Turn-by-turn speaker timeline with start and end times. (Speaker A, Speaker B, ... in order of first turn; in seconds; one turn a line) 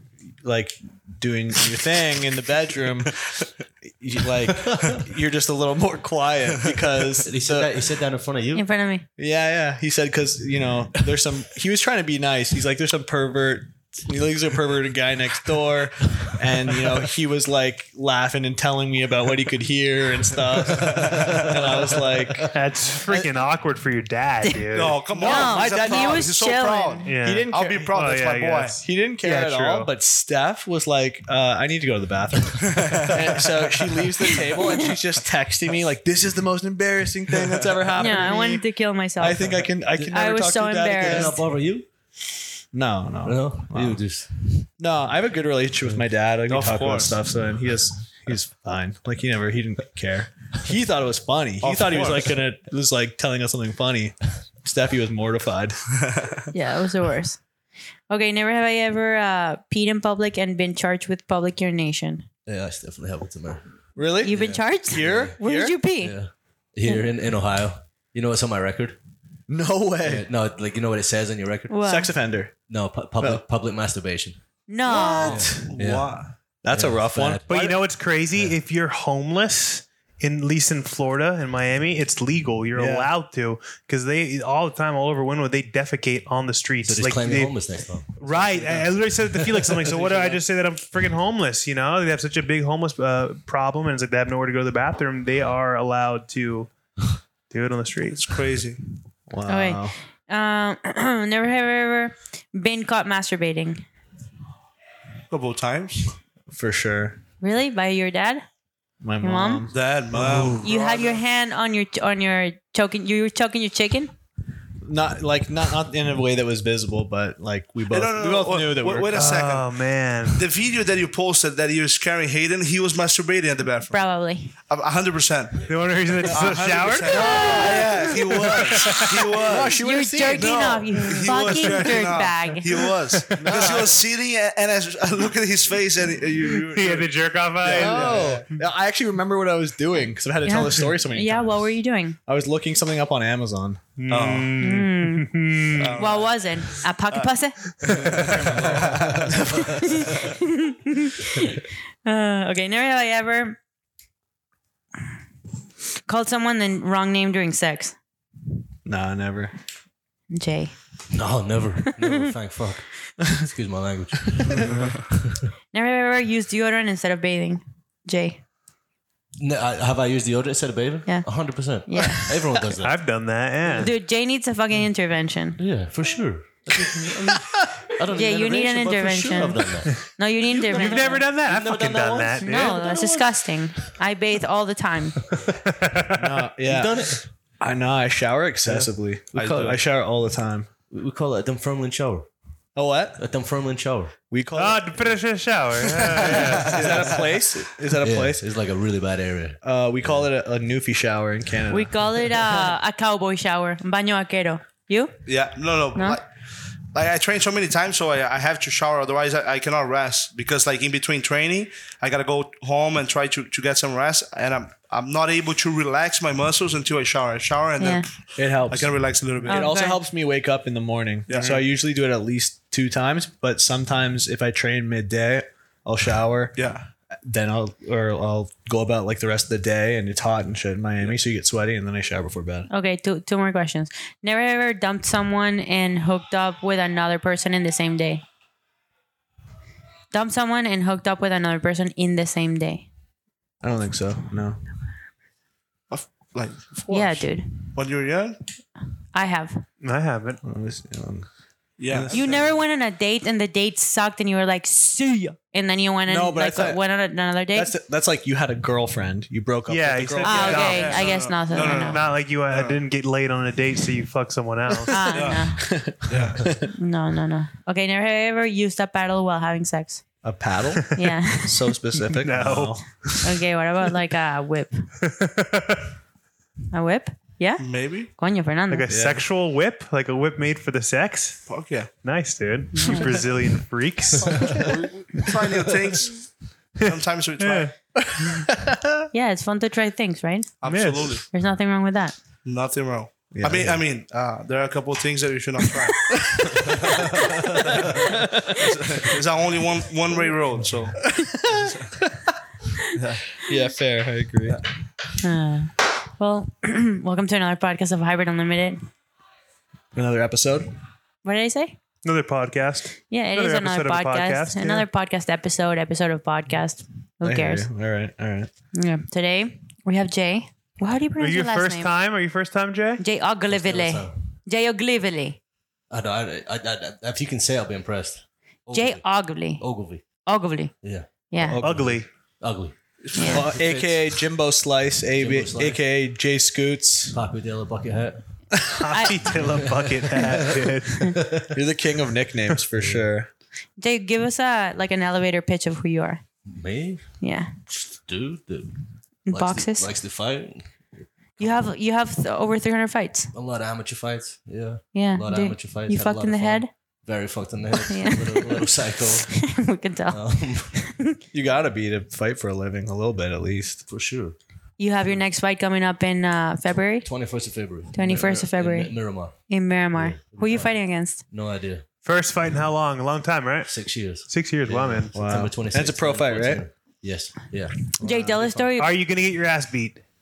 Speaker A: 0.4-7.7
Speaker B: 4.5-5.0
Speaker B: 7.2-8.6
Speaker C: 8.5-9.0
Speaker A: 9.2-22.5
Speaker B: 20.8-21.5
Speaker D: 22.4-25.0
Speaker C: 24.4-27.1
Speaker E: 24.7-28.8
Speaker A: 25.2-26.3
Speaker D: 27.0-29.9
Speaker A: 27.2-28.1
Speaker A: 28.8-38.6
Speaker E: 32.6-34.1
Speaker C: 34.5-34.9
Speaker C: 38.0-41.4
Speaker A: 39.2-41.4
Speaker B: 41.0-41.9
Speaker A: 42.7-44.0
Speaker B: 43.2-44.7
Speaker A: 44.8-55.8
Speaker E: 46.5-47.1
Speaker E: 51.6-52.3
Speaker E: 56.0-56.5
Speaker C: 56.5-57.4
Speaker C: 58.1-62.2
Speaker B: 62.5-63.6
Speaker A: 64.0-65.8
Speaker C: 64.2-66.1
Speaker B: 64.2-65.3
Speaker B: 66.0-69.0
Speaker A: 69.5-70.3
Speaker B: 70.0-71.7
Speaker C: 71.7-72.1
Speaker A: 71.8-72.5
Speaker B: 72.7-74.4
Speaker C: 74.7-75.5
Speaker A: 74.9-75.7
Speaker B: 75.2-77.4
Speaker E: 75.6-76.3
Speaker A: 76.6-77.8
Speaker D: 77.5-87.5
Speaker A: 82.7-83.1
Speaker B: 86.8-90.0
Speaker D: 88.2-96.7
Speaker E: 90.0-90.3
Speaker D: 97.5-98.3
Speaker E: 98.1-98.8
Speaker A: 99.3-100.0
Speaker C: 99.5-103.8
Speaker E: 105.3-106.1
Speaker A: 106.5-107.2
Speaker C: 107.4-108.4
Speaker A: 109.0-110.6
Speaker C: 109.2-109.7
Speaker E: 109.7-111.2
Speaker C: 110.6-114.1
Speaker A: 114.8-119.4
Speaker E: 117.9-119.8
Speaker D: 119.1-120.4
Speaker E: 120.3-124.0
Speaker C: 123.9-124.5
Speaker E: 124.7-129.8
Speaker D: 125.6-127.7
Speaker A: 126.3-130.8
Speaker D: 128.5-129.3
Speaker C: 129.7-132.8
Speaker E: 130.3-138.4
Speaker D: 133.2-133.9
Speaker A: 133.4-133.9
Speaker D: 136.7-138.5
Speaker A: 137.6-141.7
Speaker C: 140.4-142.2
Speaker A: 142.3-143.8
Speaker D: 144.0-146.0
Speaker E: 144.1-144.7
Speaker C: 144.6-145.3
Speaker E: 145.7-147.3
Speaker C: 145.9-147.6
Speaker E: 147.8-149.3
Speaker A: 149.2-150.1
Speaker C: 149.6-153.6
Speaker C: 156.0-157.9
Speaker A: 158.8-159.5
Speaker C: 160.3-160.8
Speaker B: 161.1-165.4
Speaker E: 164.6-164.9
Speaker C: 165.7-168.4
Speaker B: 169.4-172.9
Speaker C: 171.1-172.5
Speaker D: 172.7-173.9
Speaker C: 173.7-175.6
Speaker B: 175.6-180.0
Speaker C: 178.1-181.2
Speaker D: 180.5-183.0
Speaker B: 180.6-183.9
Speaker C: 182.4-185.2
Speaker D: 185.5-186.4
Speaker A: 186.2-190.7
Speaker B: 186.6-187.2
Speaker B: 189.3-189.8
Speaker E: 189.3-189.8
Speaker B: 190.9-192.3
Speaker A: 192.8-193.2
Speaker B: 193.2-194.1
Speaker A: 194.3-195.2
Speaker D: 194.5-196.8
Speaker A: 196.1-198.4
Speaker B: 196.3-196.9
Speaker E: 196.7-197.2
Speaker B: 198.0-200.2
Speaker A: 199.6-202.7
Speaker C: 201.7-205.2
Speaker E: 205.2-206.3
Speaker C: 205.9-206.2
Speaker E: 206.9-218.1
Speaker C: 217.8-218.1
Speaker A: 218.4-226.6
Speaker E: 218.7-219.7
Speaker C: 219.5-220.0
Speaker E: 221.3-221.6
Speaker E: 226.6-226.8
Speaker A: 227.2-232.7
Speaker C: 232.7-238.2
Speaker C: 240.1-242.9
Speaker A: 243.6-244.6
Speaker E: 245.9-248.4
Speaker C: 246.9-247.5
Speaker C: 249.1-249.6
Speaker D: 249.8-250.4
Speaker A: 250.4-251.3
Speaker E: 251.8-252.4
Speaker A: 251.8-252.4
Speaker C: 252.1-257.7
Speaker A: 256.1-256.8
Speaker A: 257.5-260.6
Speaker D: 259.7-265.3
Speaker C: 260.2-262.1
Speaker E: 260.4-262.8
Speaker C: 264.9-265.6
Speaker E: 264.9-266.5
Speaker A: 265.6-266.7
Speaker C: 266.7-270.0
Speaker A: 270.2-273.2
Speaker C: 270.9-271.7
Speaker D: 272.1-272.8
Speaker C: 273.2-274.9
Speaker D: 275.0-275.9
Speaker C: 276.7-278.9
Speaker E: 277.6-278.1
Speaker D: 278.7-281.4
Speaker A: 278.9-279.2
Speaker E: 281.5-281.9
Speaker D: 282.0-284.8
Speaker C: 282.7-283.3
Speaker A: 284.3-285.1
Speaker E: 285.0-286.3
Speaker D: 286.8-287.7
Speaker E: 286.8-287.7
Speaker A: 288.0-289.0
Speaker C: 289.1-290.6
Speaker E: 290.6-291.2
Speaker D: 290.6-291.2
Speaker C: 291.3-292.1
Speaker E: 292.4-302.0
Speaker A: 293.3-293.8
Speaker A: 296.1-296.6
Speaker A: 297.7-298.6
Speaker A: 301.2-302.3
Speaker E: 302.9-303.2
Speaker A: 303.3-304.6
Speaker C: 305.2-308.8
Speaker A: 309.9-310.7
Speaker C: 311.2-311.8
Speaker D: 312.0-314.9
Speaker C: 313.1-317.7
Speaker A: 317.2-318.5
Speaker C: 318.7-321.9
Speaker D: 321.2-323.0
Speaker C: 323.0-325.4
Speaker B: 323.5-324.2
Speaker B: 325.9-330.0
Speaker C: 328.7-329.6
Speaker C: 330.2-330.7
Speaker B: 330.8-334.2
Speaker C: 331.3-331.6
Speaker A: 331.4-332.0
Speaker D: 331.6-332.1
Speaker C: 333.1-333.5
Speaker A: 333.2-337.2
Speaker B: 335.1-335.8
Speaker B: 337.1-338.2
Speaker D: 338.7-341.2
Speaker C: 338.9-339.4
Speaker B: 339.2-341.6
Speaker A: 341.5-343.3
Speaker B: 342.8-343.0
Speaker C: 343.8-346.2
Speaker B: 346.4-347.1
Speaker C: 347.2-347.5
Speaker B: 347.7-351.7
Speaker C: 349.3-349.9
Speaker C: 351.4-353.3
Speaker B: 353.3-359.4
Speaker C: 354.9-356.7
Speaker C: 357.9-361.2
Speaker B: 360.1-360.8
Speaker A: 361.3-363.8
Speaker B: 363.9-364.4
Speaker C: 364.8-367.1
Speaker B: 367.0-371.8
Speaker C: 367.9-368.9
Speaker C: 369.5-371.2
Speaker D: 372.0-373.7
Speaker B: 373.7-378.8
Speaker D: 374.3-375.2
Speaker A: 375.1-376.6
Speaker C: 378.0-378.9
Speaker D: 378.8-380.0